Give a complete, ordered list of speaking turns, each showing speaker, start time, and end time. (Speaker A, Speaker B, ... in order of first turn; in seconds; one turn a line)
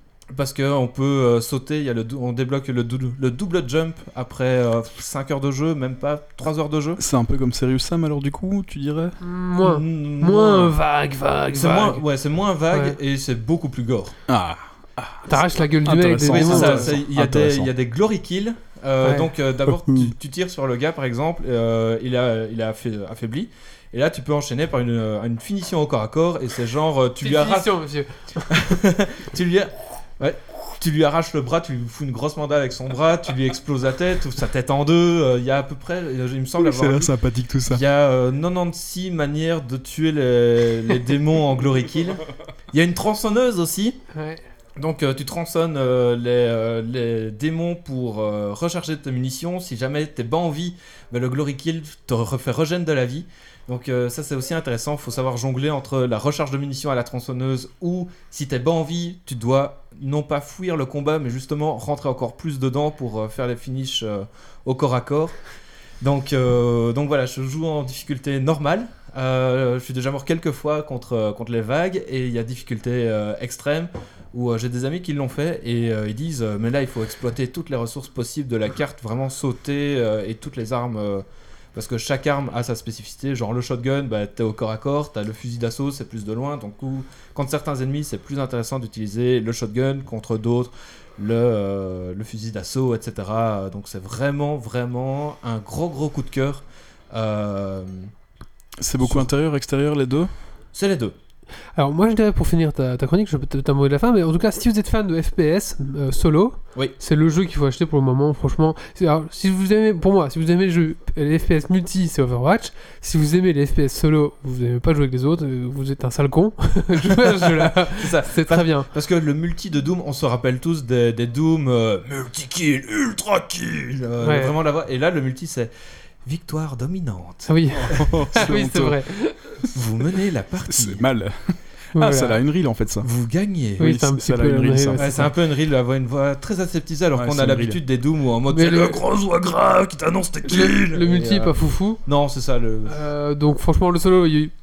Speaker A: 0.3-7.0
Speaker B: 7.0-9.2
Speaker C: 9.2-12.0
Speaker A: 9.6-10.8
Speaker A: 11.5-14.2
Speaker C: 12.7-13.0
Speaker B: 14.3-17.7
Speaker C: 15.3-16.9
Speaker A: 16.3-27.7
Speaker C: 19.0-19.3
Speaker B: 19.7-20.1
Speaker C: 27.2-28.6
Speaker A: 28.5-37.1
Speaker B: 36.6-37.8
Speaker A: 37.7-44.0
Speaker C: 44.1-44.4
Speaker A: 44.8-65.4
Speaker A: 66.0-98.1
Speaker B: 98.8-100.3
Speaker A: 99.0-99.3
Speaker A: 100.7-101.2
Speaker C: 101.8-118.9
Speaker A: 117.8-125.7
Speaker C: 124.2-124.5
Speaker A: 126.2-128.4
Speaker C: 127.5-129.4
Speaker B: 127.7-129.0
Speaker A: 129.7-131.0
Speaker B: 130.7-133.1
Speaker C: 131.9-132.4
Speaker A: 133.0-133.9
Speaker C: 133.8-135.3
Speaker B: 133.8-135.3
Speaker A: 135.0-143.0
Speaker B: 137.1-137.8
Speaker C: 138.5-139.0
Speaker C: 140.5-142.0
Speaker C: 142.9-144.5